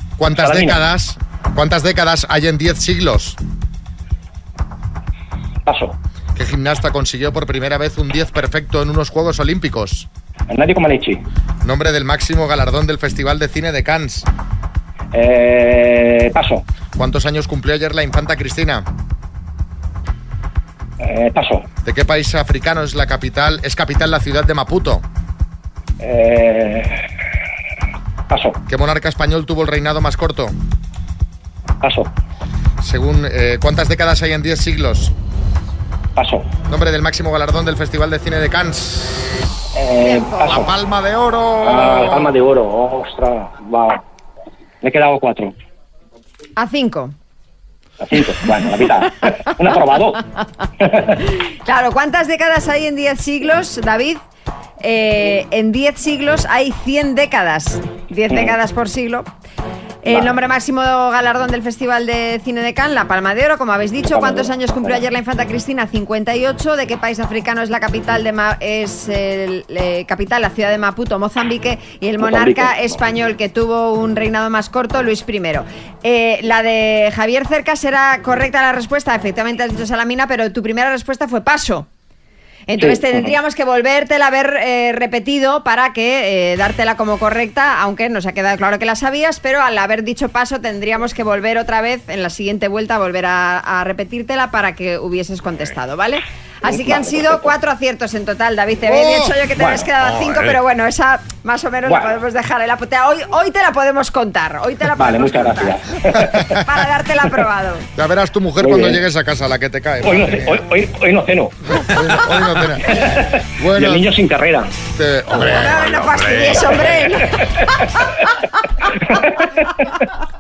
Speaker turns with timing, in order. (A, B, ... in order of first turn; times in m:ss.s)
0:00.2-0:03.4 A
0:00.4-0:00.8 B
0:05.7-0:06.0 B
0:06.4-0:10.1 A
0:10.5-0:11.2 B
0:11.6-0:14.3 A
0:15.1-0:16.6 B
0:17.0-0:18.9 A
0:21.0-0:21.7 B
0:21.8-0:25.0 A
0:26.0-0:27.0 B
0:28.3-0:28.6 B
0:28.7-0:30.5 A
0:31.8-0:32.1 B
0:32.8-0:35.1 A
0:36.2-0:36.5 B
0:36.7-0:39.3 A
0:39.8-0:40.7 B
0:40.0-0:40.6 C
0:40.4-0:42.4 A
0:41.6-0:44.0 B
0:44.8-0:45.5 B
0:46.6-0:47.1 C
0:48.0-0:50.2 B
0:50.8-0:51.2 B
0:51.6-0:54.2 C
0:54.8-0:59.3 C
0:58.3-0:58.6 B
1:00.0-1:21.9 C
1:00.1-1:00.4 B
1:04.1-1:05.1 B
1:12.2-1:13.0 B
1:22.7-1:45.8 C
1:22.8-1:23.4 B
1:36.6-1:37.5 B
1:38.9-1:39.4 A
1:39.6-1:40.5 B
1:41.9-1:42.2 B
1:45.0-1:46.5 B
1:46.6-1:47.8 C
1:48.0-1:50.6 A
1:48.6-1:49.0 B
1:50.0-1:54.7 B
1:51.9-1:53.0 A
1:53.6-1:54.1 A
1:54.9-1:56.8 A
1:55.4-1:57.3 C
1:59.1-1:59.4 B